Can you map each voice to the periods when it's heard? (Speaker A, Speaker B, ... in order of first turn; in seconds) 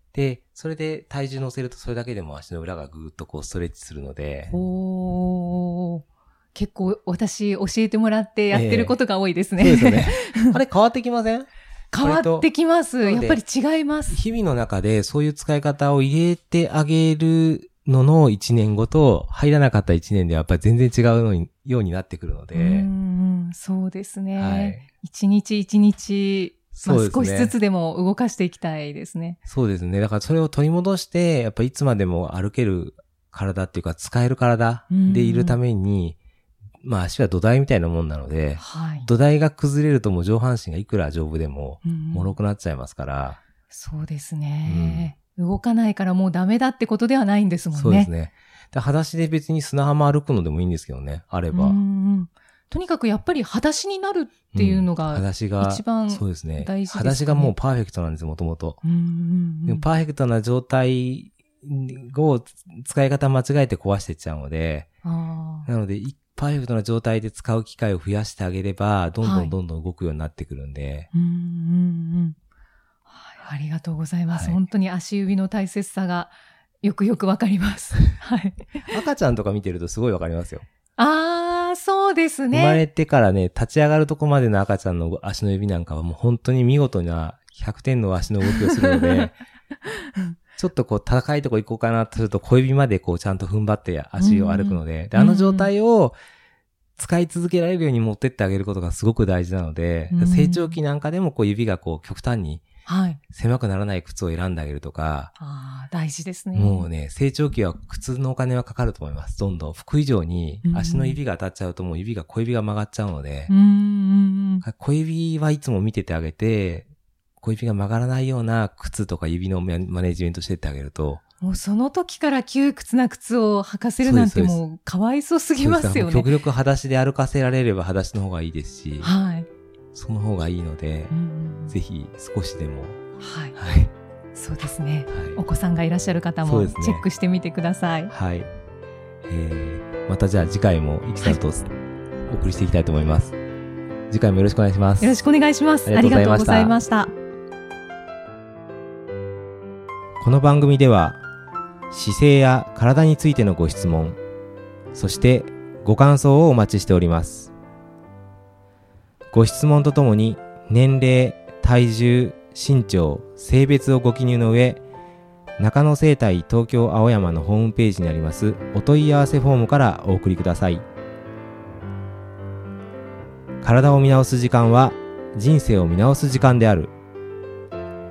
Speaker A: 0.1-4.5, 8.5-9.0, 9.6-12.5, 13.0-13.4, 14.1-22.9, 24.4-24.9, 26.7-27.6, 29.4-36.2, 36.8-43.4, 44.6-45.1, 47.7-51.8, 54.5-58.8, 59.6-64.9, 65.7-71.1, 74.3-74.6, 78.9-80.6, 82.5-89.4, 90.5-96.2, 97.0-102.6, 103.3-105.3, 106.5-113.5, 114.6-116.9, 117.4-121.2, 124.0-124.6, 125.6-129.1, 129.9-131.1, 131.7-133.0, 133.5-133.9, 135.1-135.4, 136.4-137.1, 138.1-138.5, 139.3-141.7, 142.3-143.3, 144.1-145.2, 145.8-146.8, 150.2-151.2, 151.9-154.2, 154.9-157.5, 159.3-164.8, 165.6-170.8, 173.6-176.9
Speaker B: 4.5-6.0, 6.5-10.6, 11.9-14.2, 22.5-29.4, 34.9-35.6, 38.6-39.1, 41.8-42.3, 43.7-48.1, 51.5-57.5, 58.8-59.9, 65.0-65.7, 69.2-69.5, 71.1-72.3, 73.1-79.0, 81.0-82.8, 88.4-89.3, 89.8-90.3, 94.2-95.7, 100.1-100.8, 102.8-103.2, 105.4-106.9, 110.6-111.2, 113.5-114.6, 121.4-126.3, 129.0-129.5, 131.1-131.7, 133.2-133.6, 134.3-138.1, 145.0-147.1